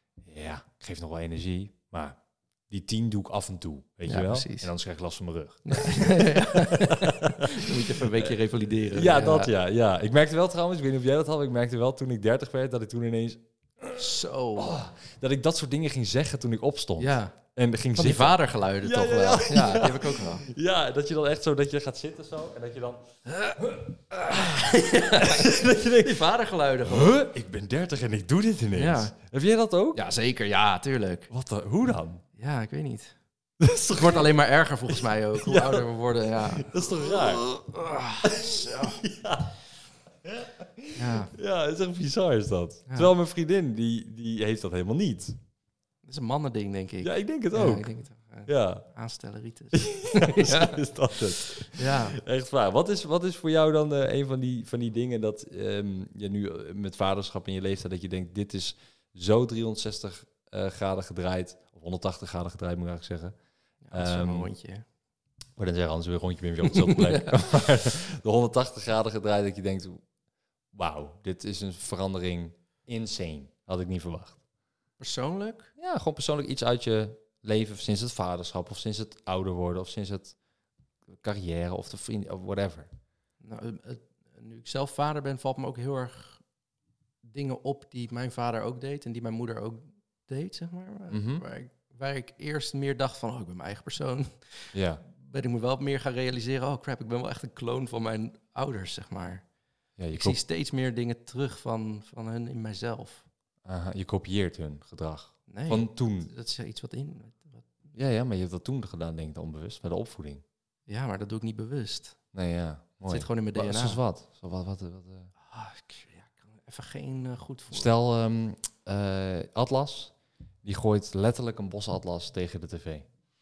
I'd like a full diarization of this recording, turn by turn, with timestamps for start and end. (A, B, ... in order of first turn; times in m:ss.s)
0:00.2-0:08.3 A
0:04.1-0:04.7 B
0:05.6-0:09.5 B
0:08.8-0:23.1 A
0:14.0-0:14.7 B
0:17.0-0:17.4 B
0:18.0-0:20.4 B
0:23.2-0:27.2 B
0:25.1-0:26.2 A
0:26.8-0:30.0 A
0:28.7-0:29.1 B
0:29.9-0:31.3 B
0:31.3-0:32.2 A
0:32.4-0:33.2 B
0:33.6-0:34.4 A
0:33.9-0:39.0 B
0:34.9-0:37.4 A
0:38.2-0:39.6 A
0:40.2-0:45.4 A
0:41.0-0:41.3 B
0:46.0-0:52.2 B
0:47.0-0:47.9 A
0:48.4-0:48.9 A
0:49.7-1:03.3 A
1:03.8-1:04.8 B
1:03.9-1:04.5 A
1:05.6-1:10.0 A
1:06.7-1:07.4 B
1:10.7-1:14.4 A
1:15.0-1:15.7 B
1:15.8-1:20.4 A
1:21.2-1:22.9 A
1:23.4-1:26.4 B
1:27.2-1:39.4 B
1:31.1-1:31.4 A
1:34.7-1:35.0 A
1:40.0-1:40.4 A
1:40.1-1:43.2 B
1:43.6-1:46.3 A
1:45.5-1:47.7 B
1:47.9-1:50.4 A
1:50.9-1:52.2 B
1:52.3-1:55.3 A
1:53.1-1:54.0 B
1:55.4-1:57.9 B
1:57.7-2:03.1 A